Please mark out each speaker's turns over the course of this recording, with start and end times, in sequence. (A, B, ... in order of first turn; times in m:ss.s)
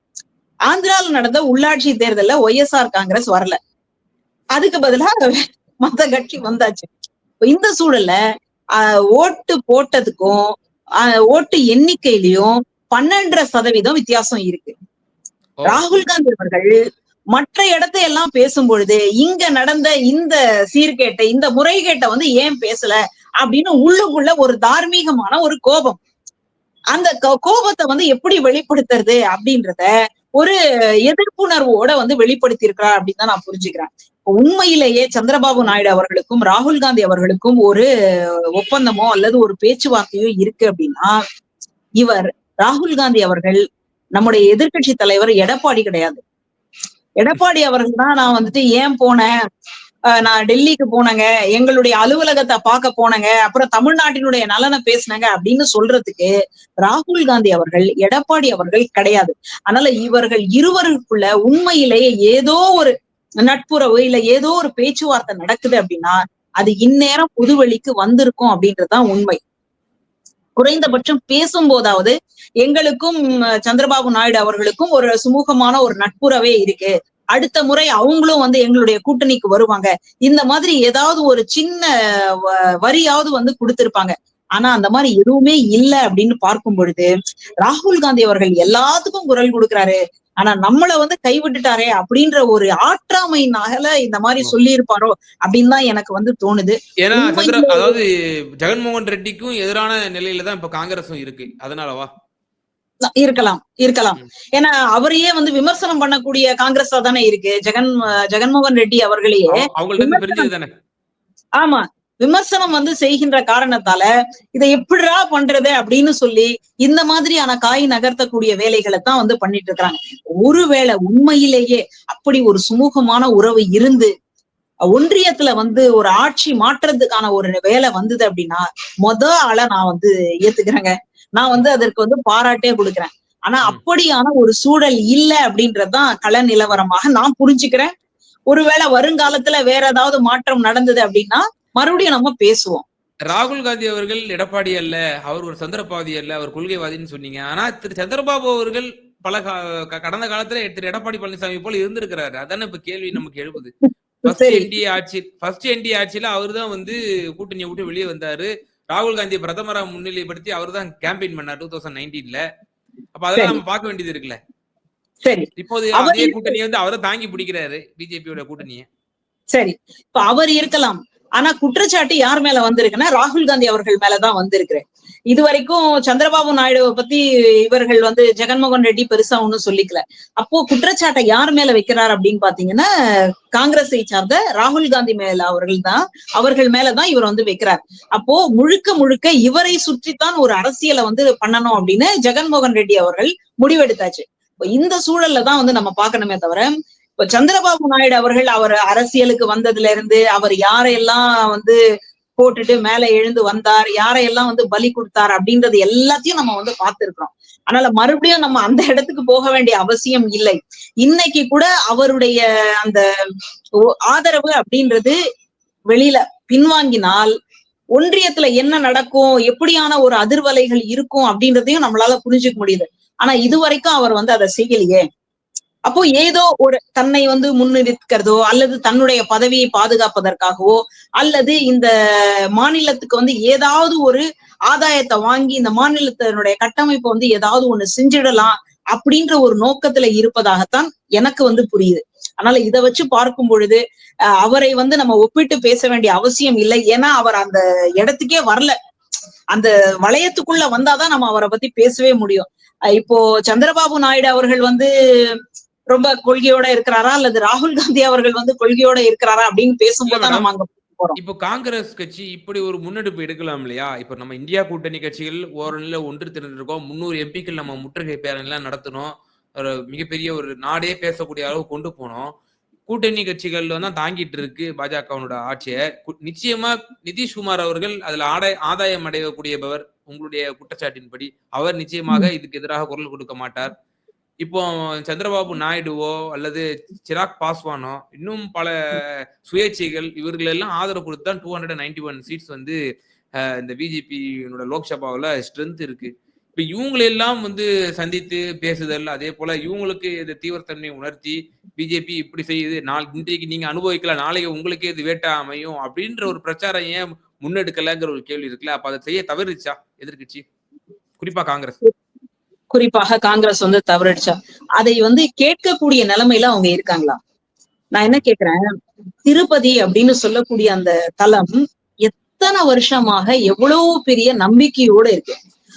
0:00.7-0:03.6 A
0:04.6-0:06.9 A
0:07.4-0:08.2 A
0:08.8-0:10.4 A
0:11.0-0:14.7 A
0:15.7-0:16.7 A
0:17.3-0:26.0 A
0:26.9-0:30.6 A
0:31.1-0:37.9 A
0:38.6-0:41.1 A
0:42.0-0:43.6 A
0:44.1-0:46.2 A
0:47.2-0:49.3 A
0:50.1-0:56.3 A
0:56.8-1:09.4 A
1:10.6-1:21.9 A
1:22.4-1:27.1 A
1:27.6-1:37.9 A
1:37.0-1:38.1 B
1:38.6-1:42.1 B
1:43.1-1:50.5 A
1:49.5-1:50.7 B
1:51.6-2:04.1 A
2:04.9-2:17.9 A
2:18.5-2:22.8 A
2:23.2-2:42.4 B
2:34.2-2:34.7 A
2:43.2-2:44.4 B
2:45.2-2:46.5 A
2:45.6-2:48.8 B
2:49.5-3:02.8 A
3:03.6-3:21.8 A
3:22.4-3:33.0 A
3:34.1-3:35.2 A
3:35.9-3:37.3 A
3:38.0-3:45.0 A
3:45.9-3:51.9 A
3:52.6-4:03.8 A
4:04.4-4:08.7 A
4:09.5-4:14.9 A
4:15.9-4:21.2 A
4:20.1-4:20.4 B
4:21.2-4:32.3 B
4:32.9-4:43.7 B
4:44.4-4:52.8 B
4:53.4-5:10.4 B
5:11.2-5:11.8 B
5:12.7-5:17.2 A
5:17.9-5:18.6 A
5:19.2-5:25.4 A